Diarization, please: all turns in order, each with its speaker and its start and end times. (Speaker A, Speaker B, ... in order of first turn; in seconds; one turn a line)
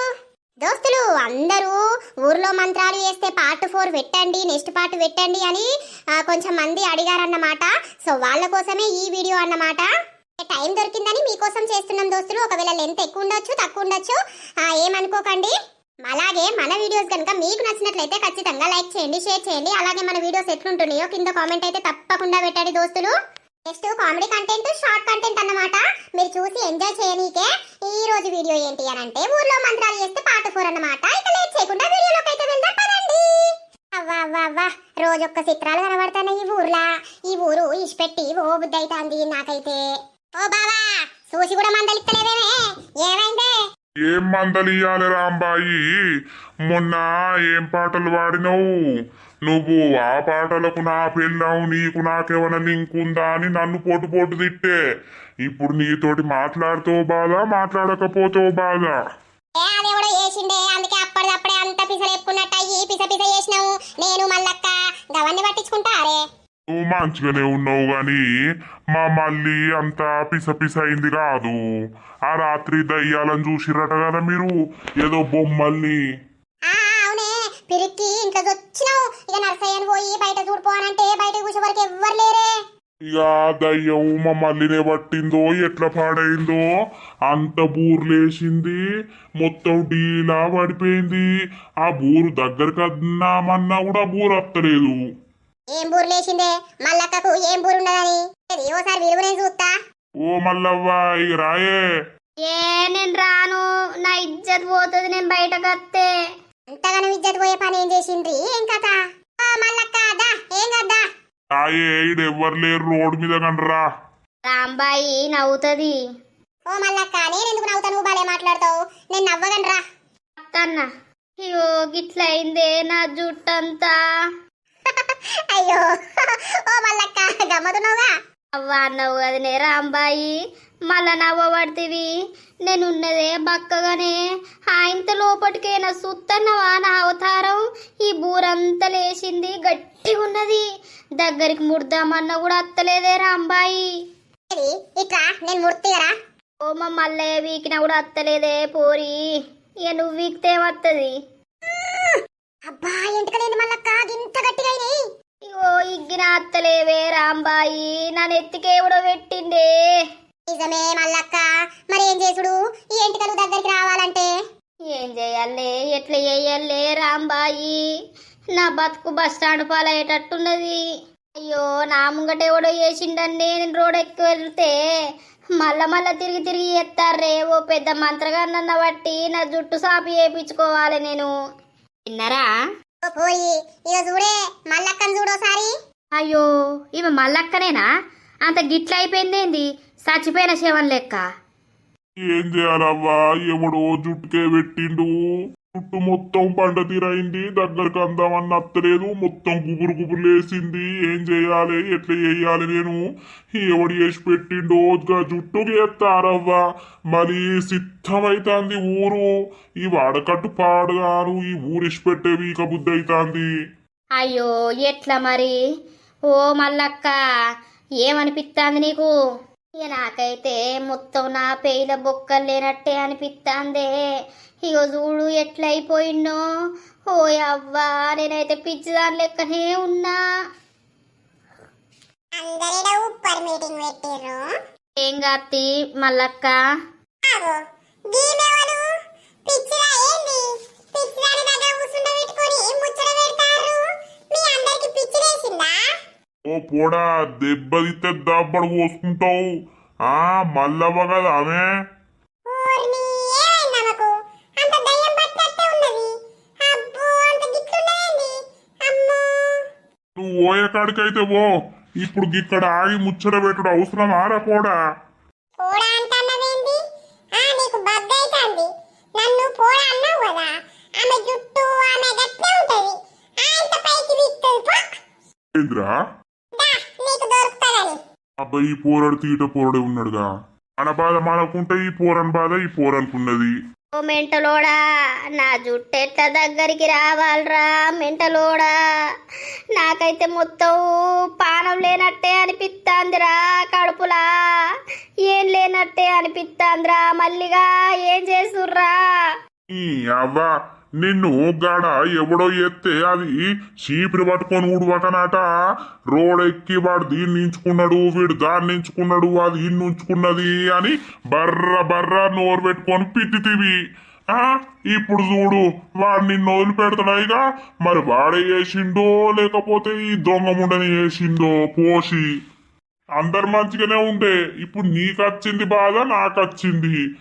Speaker A: 0.6-9.9
Speaker A: 10.4-15.5
Speaker A: 16.0-23.1
Speaker A: 23.7-43.5
Speaker B: 44.1-45.8
Speaker B: 46.7-48.6
Speaker B: 49.5-54.7
Speaker B: 55.5-59.0
Speaker A: 59.6-66.2
Speaker B: 66.7-68.2
Speaker B: 68.9-71.6
Speaker B: 72.3-74.5
Speaker B: 75.0-76.0
Speaker A: 76.7-82.5
Speaker B: 83.1-86.6
Speaker B: 87.3-88.8
Speaker B: 89.4-91.2
Speaker B: 91.8-95.0
Speaker A: 95.7-99.7
Speaker B: 100.2-101.8
Speaker C: 102.4-106.1
Speaker A: 106.7-111.0
Speaker B: 111.5-113.8
Speaker C: 114.5-116.0
Speaker A: 116.7-119.8
Speaker C: 120.4-120.9
Speaker C: 121.4-124.0
Speaker A: 124.9-125.9
Speaker A: 126.7-128.1
Speaker C: 128.6-130.3
Speaker C: 130.9-132.1
Speaker C: 132.7-134.2
Speaker C: 134.7-140.6
Speaker C: 141.2-143.9
Speaker A: 144.5-146.1
Speaker C: 146.6-149.2
Speaker C: 149.9-151.1
Speaker A: 151.7-152.2
Speaker A: 152.7-154.9
Speaker C: 155.4-159.7
Speaker A: 160.5-164.3
Speaker C: 164.9-167.8
Speaker C: 168.6-170.8
Speaker C: 171.4-174.7
Speaker C: 175.6-181.3
Speaker C: 182.1-182.5
Speaker A: 183.1-185.7
Speaker C: 186.2-187.9
Speaker C: 188.5-191.2
Speaker B: 192.3-195.1
Speaker B: 195.7-203.0
Speaker B: 203.6-206.6
Speaker B: 207.1-209.3
Speaker B: 209.8-213.5
Speaker C: 214.2-215.6
Speaker C: 216.3-217.1
Speaker C: 218.0-219.1
Speaker C: 219.8-223.9
Speaker C: 224.6-226.4
Speaker C: 227.1-230.2
Speaker A: 232.4-234.4
Speaker C: 235.0-236.6
Speaker A: 237.3-238.9
Speaker A: 239.5-245.8
Speaker B: 246.5-249.4
Speaker B: 250.1-251.7
Speaker A: 252.5-256.1
Speaker A: 256.6-259.6
Speaker B: 260.2-261.5
Speaker B: 262.0-264.8
Speaker A: 265.6-266.8
Speaker A: 267.4-274.9
Speaker B: 275.6-275.9
Speaker A: 276.6-278.0
Speaker B: 278.4-280.3
Speaker B: 280.8-283.5
Speaker C: 283.9-284.8
Speaker C: 285.4-288.7
Speaker C: 289.8-290.8
Speaker C: 291.4-294.7
Speaker C: 295.3-299.3
Speaker B: 299.7-305.4
Speaker B: 306.1-313.8
Speaker B: 314.3-322.2
Speaker B: 323.2-327.0